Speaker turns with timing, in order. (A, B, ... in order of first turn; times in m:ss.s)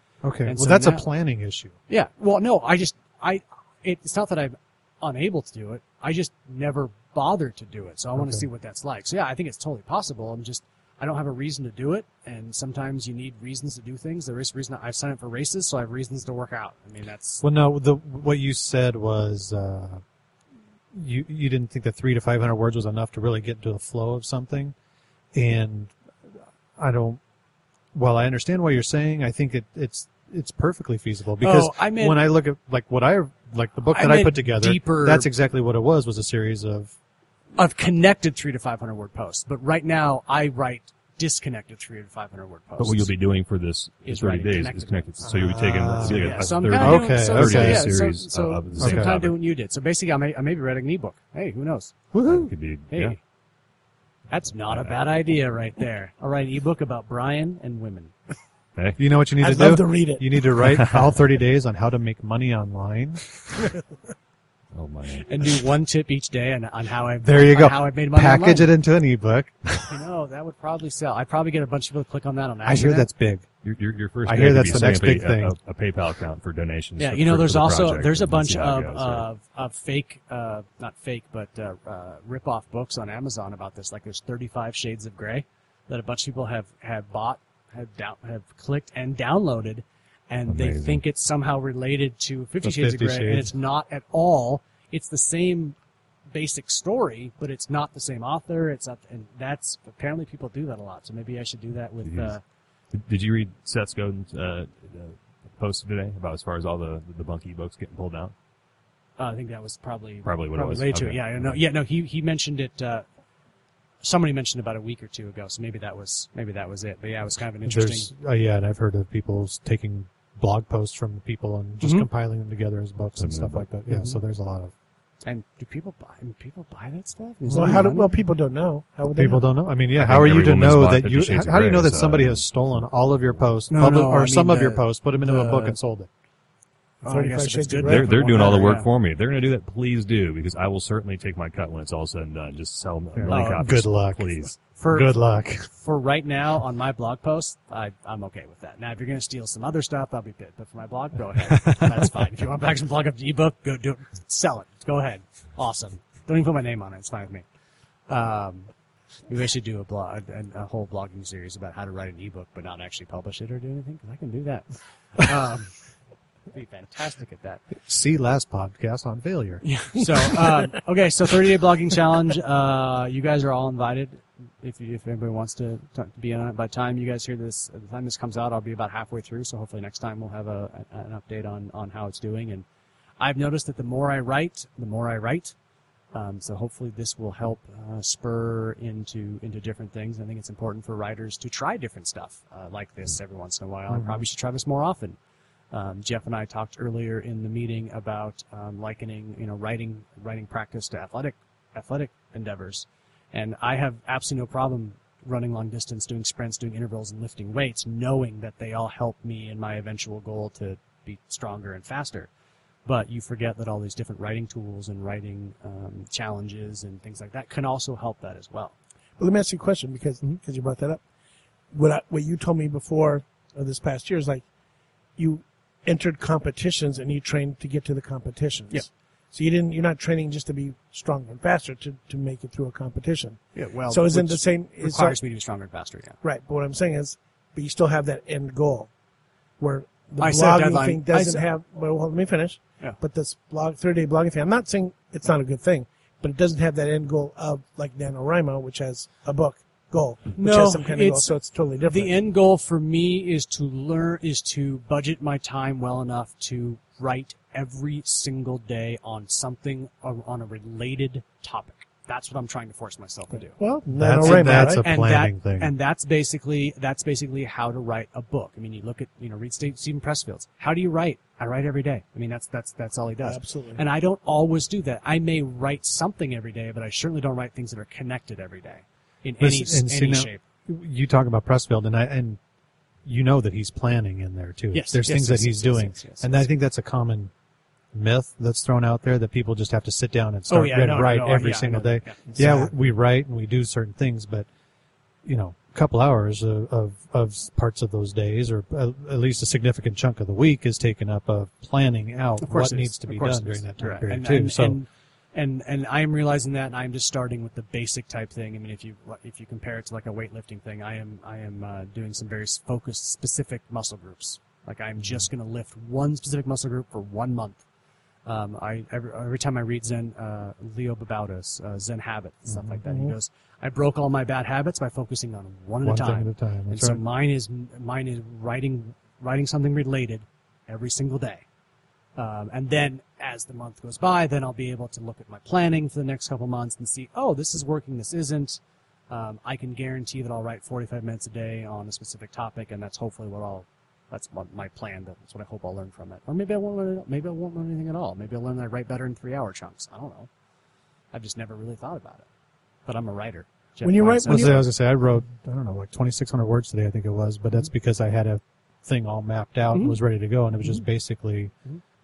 0:00.2-0:01.8 A
0:00.4-0:01.1 B
0:01.9-0:17.4 B
0:08.2-0:08.4 A
0:17.4-0:20.0 A
0:20.9-0:24.8 A
0:25.3-0:25.9 A
0:26.8-0:27.2 A
0:27.9-0:36.9 A
0:31.4-0:32.2 B
0:33.9-0:35.3 B
0:37.6-0:43.1 B
0:42.8-0:49.4 C
0:44.0-0:45.1 B
0:45.2-0:48.0 A
0:46.0-0:52.0 B
0:48.8-0:49.2 A
0:52.1-0:52.5 A
0:52.2-0:53.2 C
0:52.9-0:53.2 B
0:54.3-0:58.2 B
0:54.6-0:55.1 C
0:59.0-1:03.3 A
0:59.4-1:00.3 D
1:00.7-1:01.0 C
1:04.8-1:05.3 C
1:05.1-1:08.7 B
1:07.2-1:10.0 A
1:09.9-1:13.1 B
1:12.6-1:13.5 A
1:13.6-1:19.3 C
1:14.2-1:15.6 A
1:17.0-1:35.8 B
1:30.5-1:31.0 C
1:32.6-1:33.5 A
1:36.3-1:42.4 B
1:42.0-1:42.4 C
1:42.9-1:48.3 C
1:49.2-1:53.1 B
1:50.2-1:51.6 C
1:54.0-1:58.1 B
1:57.7-2:04.7 A
2:01.8-2:02.1 B
2:03.2-2:03.7 C
2:03.9-2:04.2 B
2:05.2-2:08.1 B
2:07.5-2:07.8 A
2:07.5-2:09.5 D
2:09.1-2:16.1 A
2:10.0-2:12.4 C
2:13.7-2:15.8 B
2:17.0-2:18.9 B
2:17.0-2:18.7 D
2:17.8-2:24.6 C
2:23.1-2:25.7 A
2:23.3-2:23.7 B
2:24.6-2:37.4 B
2:38.1-2:38.7 B
2:39.3-2:45.8 B
2:46.5-2:47.6 B
2:47.8-2:49.6 A
2:49.6-3:02.7 B
3:03.2-3:05.6 B
3:06.1-3:15.2 B
3:13.9-3:14.2 A
3:15.7-3:32.3 B
3:32.9-3:38.8 B
3:39.2-3:41.0 D
3:41.7-3:44.4 D
3:45.2-3:55.2 D
3:53.6-3:56.2 B
3:56.2-3:58.9 D
3:59.6-4:12.2 D
4:00.2-4:01.5 B
4:10.4-4:23.6 B
4:23.4-4:24.8 D
4:23.9-4:25.7 A
4:24.2-4:40.4 B
4:33.2-4:33.8 D
4:39.4-4:42.4 A
4:43.0-4:47.3 A
4:44.7-4:46.5 B
4:47.9-4:54.5 A
4:50.5-4:52.7 B
4:52.4-4:52.7 D
4:55.2-5:04.8 A
5:02.4-5:17.6 B
5:18.3-5:31.4 B
5:22.5-5:22.8 A
5:22.9-5:23.1 D
5:25.8-5:27.0 A
5:32.2-5:50.3 B
5:51.1-5:52.3 B
5:52.9-5:54.7 B
5:53.8-5:54.7 D
5:54.3-6:01.5 A
5:59.7-6:00.0 B